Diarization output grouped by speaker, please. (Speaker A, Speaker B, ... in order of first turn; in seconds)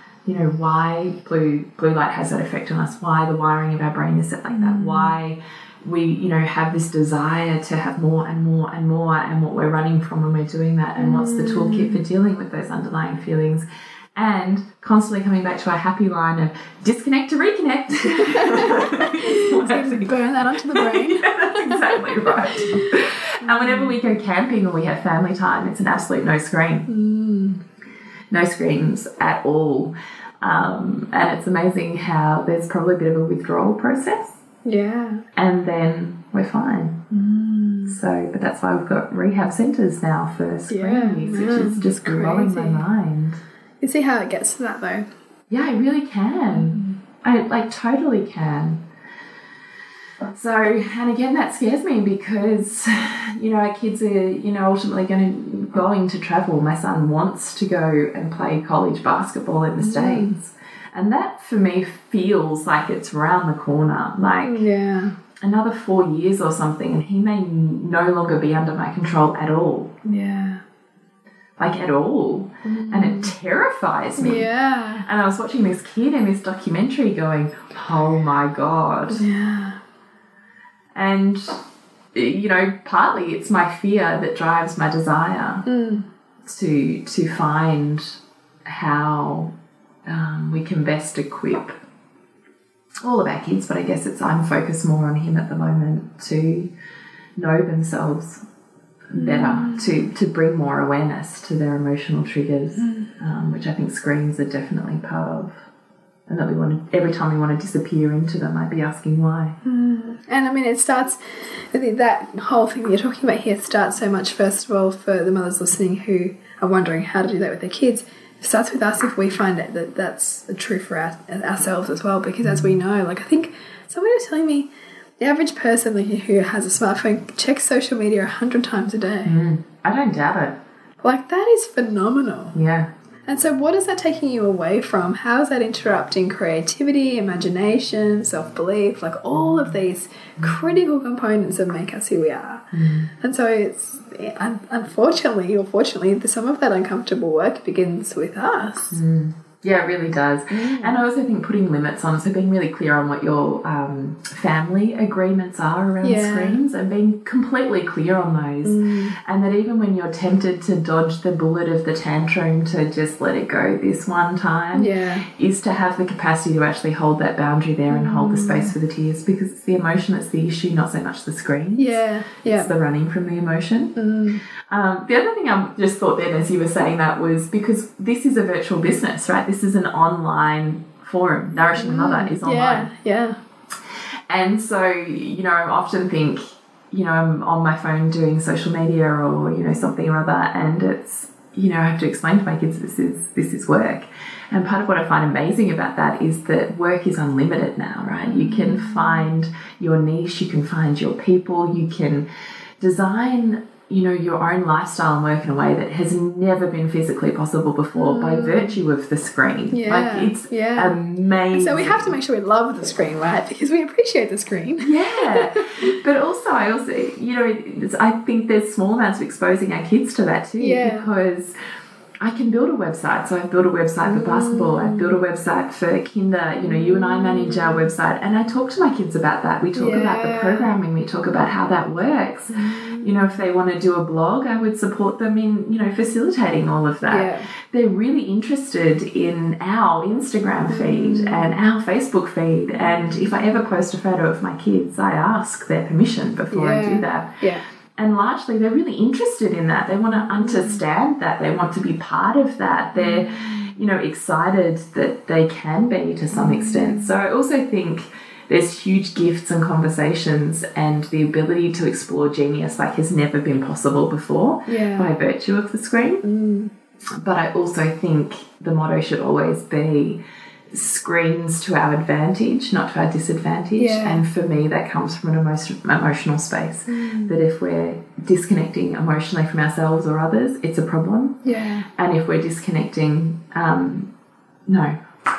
Speaker A: 0.2-26.9, 28.3-34.4, 35.4-37.0, 37.9-43.4, 45.5-48.8, 50.3-64.7, 65.4-70.0, 71.6-74.5, 75.0-79.2, 80.9-81.6, 82.1-85.7, 86.5-89.5, 90.1-91.8, 93.0-96.7, 97.4-98.4, 99.1-105.6, 106.3-109.6, 122.5-122.8, 129.2-130.6, 132.5-132.9, 142.7-143.1, 148.9-174.0, 174.6-182.9, 184.3-202.3, 202.8-212.2, 214.8-221.6, 222.2-247.4, 248.0-266.2, 267.2-270.2, 270.7-281.4, 282.0-284.1, 284.7-285.0
Speaker B: 4.5-5.2, 11.0-12.0, 18.0-22.0, 23.4-24.0, 26.9-27.6, 34.6-35.2, 37.1-38.0, 40.7-42.9, 43.8-45.1, 46.5-47.0, 59.8-60.4, 64.4-65.2, 70.0-70.6, 72.6-73.3, 74.2-75.1, 79.1-79.8, 85.7-86.1, 99.2-99.9, 102.8-103.1, 109.6-129.3, 131.0-132.6, 133.3-142.7, 143.2-149.0, 150.5-151.0, 156.0-156.6, 158.6-159.2, 164.7-165.3, 167.9-168.7, 171.8-172.7, 174.0-174.4, 181.8-183.4, 198.3-199.3, 208.0-208.8, 209.7-211.0, 211.5-215.9, 220.6-221.1, 224.1-225.2, 226.6-227.9, 229.8-230.7, 232.5-233.3, 237.1-237.5, 240.7-241.5, 246.5-247.6, 250.3-250.8, 252.9-253.7, 256.3-257.1, 264.7-265.1, 266.2-266.7, 273.8-274.2, 276.9-277.4, 281.4-281.9